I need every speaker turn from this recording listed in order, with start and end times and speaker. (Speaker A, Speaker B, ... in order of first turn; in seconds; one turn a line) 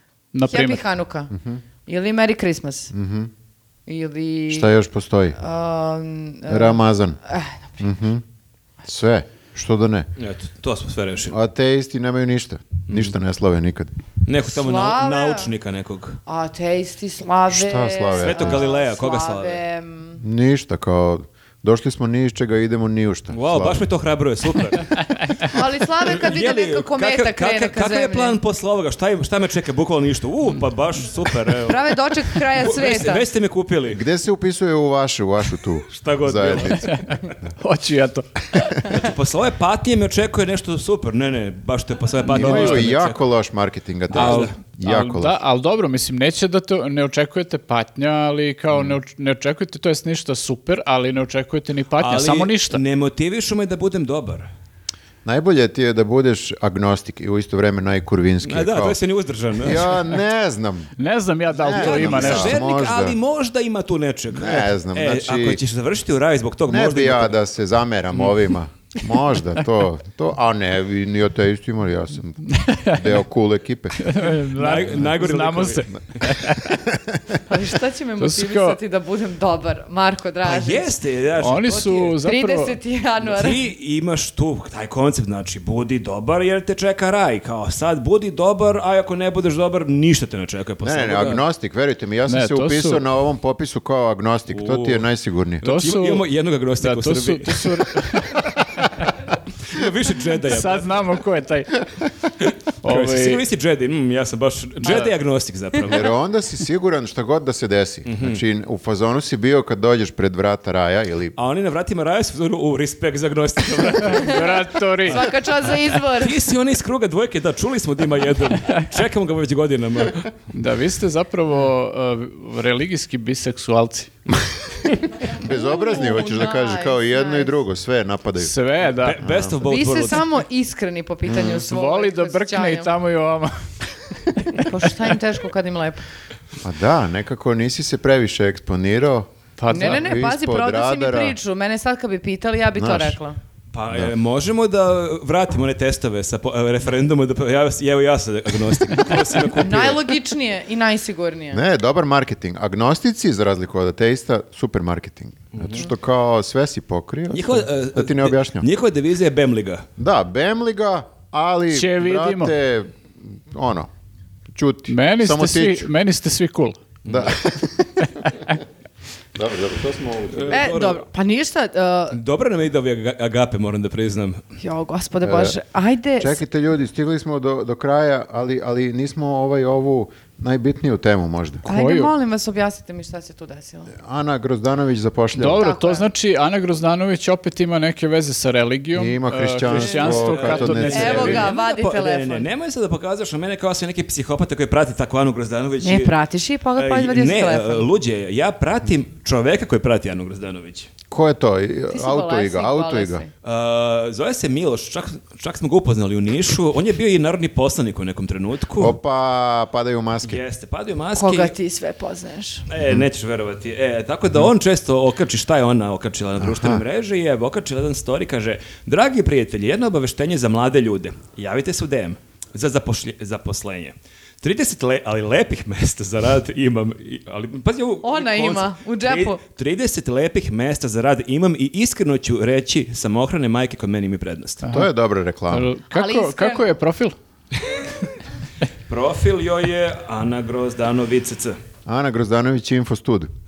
Speaker A: 0.3-0.8
Speaker B: 0.5-1.3
Speaker C: 1.3-1.6
Speaker B: 1.9-2.9
Speaker C: 2.9-3.3
Speaker B: 3.9-4.7
Speaker C: 4.5-5.4
Speaker B: 5.4-7.9
Speaker C: 6.5-7.2
Speaker C: 7.8-8.2
Speaker C: 8.8-10.1
Speaker D: 10.2-11.4
Speaker C: 11.3-13.9
Speaker D: 14.2-16.2
Speaker B: 14.4-15.5
Speaker B: 16.3-20.2
Speaker C: 17.5-18.6
Speaker D: 18.1-19.6
Speaker C: 20.2-23.9
Speaker D: 23.3-34.0
Speaker B: 25.5-28.4
Speaker B: 31.7-33.2
Speaker C: 33.9-37.0
Speaker D: 35.9-37.0
Speaker A: 36.8-39.0
Speaker D: 38.9-43.2
Speaker C: 42.3-45.4
Speaker A: 42.3-42.9
Speaker D: 44.1-44.5
Speaker A: 44.1-52.8
Speaker D: 52.0-54.5
Speaker C: 55.2-59.0
Speaker D: 58.4-60.0
Speaker C: 59.6-60.9
Speaker A: 61.0-62.6
Speaker C: 61.6-63.2
Speaker D: 61.7-67.4
Speaker C: 64.3-65.6
Speaker C: 66.7-74.1
Speaker A: 72.5-73.2
Speaker A: 74.0-76.8
Speaker D: 74.3-76.3
Speaker C: 76.7-77.2
Speaker B: 77.5-81.0
Speaker A: 78.2-78.8
Speaker D: 80.4-82.1
Speaker A: 81.4-82.8
Speaker B: 82.0-83.6
Speaker D: 83.2-91.4
Speaker C: 90.8-95.7
Speaker A: 92.3-93.0
Speaker D: 94.5-95.1
Speaker A: 95.6-96.3
Speaker D: 95.6-97.9
Speaker A: 96.8-99.1
Speaker D: 99.6-101.0
Speaker A: 100.5-101.8
Speaker D: 102.4-106.1
Speaker A: 102.8-103.4
Speaker C: 105.9-111.3
Speaker D: 108.0-108.4
Speaker D: 111.4-114.5
Speaker A: 114.0-115.2
Speaker B: 114.1-114.5
Speaker B: 115.1-116.4
Speaker D: 115.1-120.3
Speaker A: 120.5-124.2
Speaker C: 125.3-128.5
Speaker B: 125.4-127.5
Speaker A: 128.4-129.2
Speaker D: 129.0-130.3
Speaker C: 129.2-129.6
Speaker B: 129.6-132.9
Speaker C: 131.3-131.6
Speaker A: 131.7-133.7
Speaker A: 134.4-134.7
Speaker B: 134.5-136.0
Speaker C: 136.6-141.4
Speaker A: 139.6-140.0
Speaker B: 139.7-143.4
Speaker C: 142.8-143.2
Speaker D: 143.7-150.2
Speaker B: 149.6-151.6
Speaker C: 151.5-158.7
Speaker D: 155.5-155.9
Speaker D: 157.3-159.9
Speaker C: 160.0-163.9
Speaker A: 161.7-162.5
Speaker C: 164.5-165.9
Speaker A: 164.9-166.8
Speaker D: 167.1-167.3
Speaker C: 167.1-168.6
Speaker C: 169.3-170.7
Speaker D: 170.3-171.1
Speaker B: 170.5-172.2
Speaker D: 172.1-174.4
Speaker B: 174.6-176.4
Speaker C: 175.2-175.6
Speaker C: 176.2-181.6
Speaker A: 181.6-182.1
Speaker B: 181.7-183.9
Speaker C: 183.9-185.7
Speaker A: 185.4-191.5
Speaker B: 185.6-186.1
Speaker C: 188.9-191.5
Speaker D: 189.9-196.2
Speaker B: 190.9-192.5
Speaker B: 195.8-197.9
Speaker D: 196.8-200.9
Speaker C: 201.1-203.2
Speaker B: 201.9-203.3
Speaker D: 203.4-209.0
Speaker C: 208.8-210.4
Speaker D: 210.2-211.5
Speaker B: 211.2-212.7
Speaker D: 212.7-234.6
Speaker C: 216.4-216.8
Speaker B: 228.0-229.4
Speaker A: 234.6-234.9
Speaker C: 234.7-235.7
Speaker A: 235.5-237.2
Speaker B: 235.9-236.7
Speaker D: 238.9-241.6
Speaker C: 241.9-243.3